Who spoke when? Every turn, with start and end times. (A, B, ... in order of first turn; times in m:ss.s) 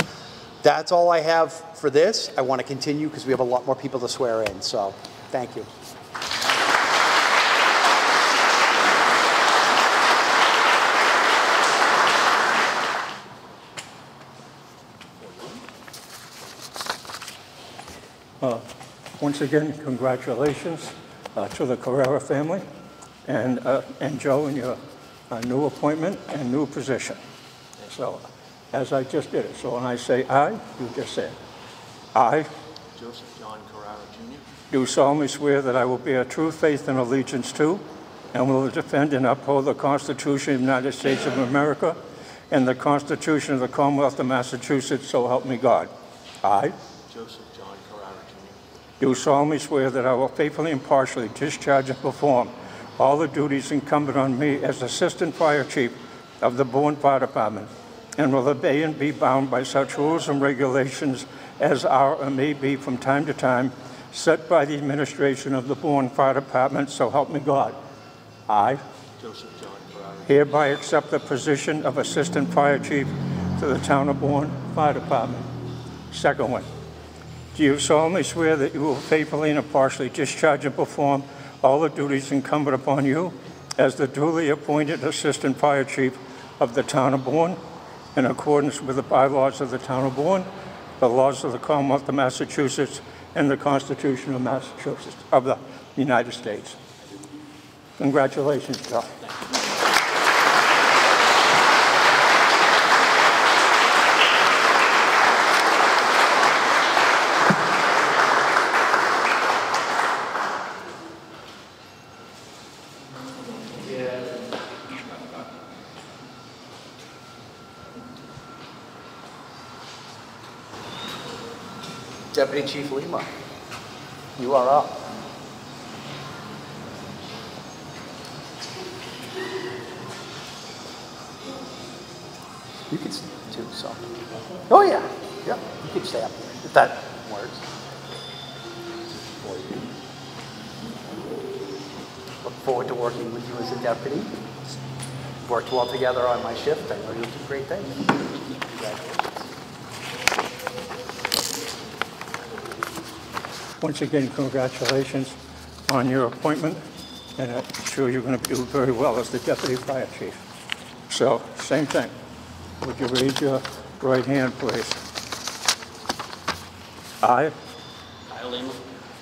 0:00.6-0:05.7 A
0:19.2-0:22.6 B
0:23.3-0:24.8 B
0:25.3-0:27.2 B
0:27.8-0:31.4 B
0:32.2-0:32.5 B
0:33.0-0:34.4 C
0:34.7-0:42.0 B
0:42.5-0:45.9 B
0:46.4-0:46.8 B
0:47.1-0:48.6 C
0:49.0-1:07.8 B
1:08.5-1:08.8 B
1:09.2-1:10.2 C
1:10.2-1:15.5 B
1:16.1-1:16.7 B
1:17.5-1:27.6 B
1:28.2-1:30.5 B
1:31.0-1:36.8 B
1:38.0-1:39.1 B
2:02.3-2:03.3 A
2:04.4-2:05.0 A
2:12.9-2:14.0 A
2:14.7-2:17.6 A
2:19.4-2:19.9 A
2:22.4-2:24.3 A
2:25.4-2:29.4 A
2:33.8-2:35.4 B
2:35.9-2:36.8 B
2:37.4-2:40.4 B
2:41.1-2:42.1 B
2:42.8-2:45.0 B
2:47.2-2:47.6 B
2:48.3-2:48.8 C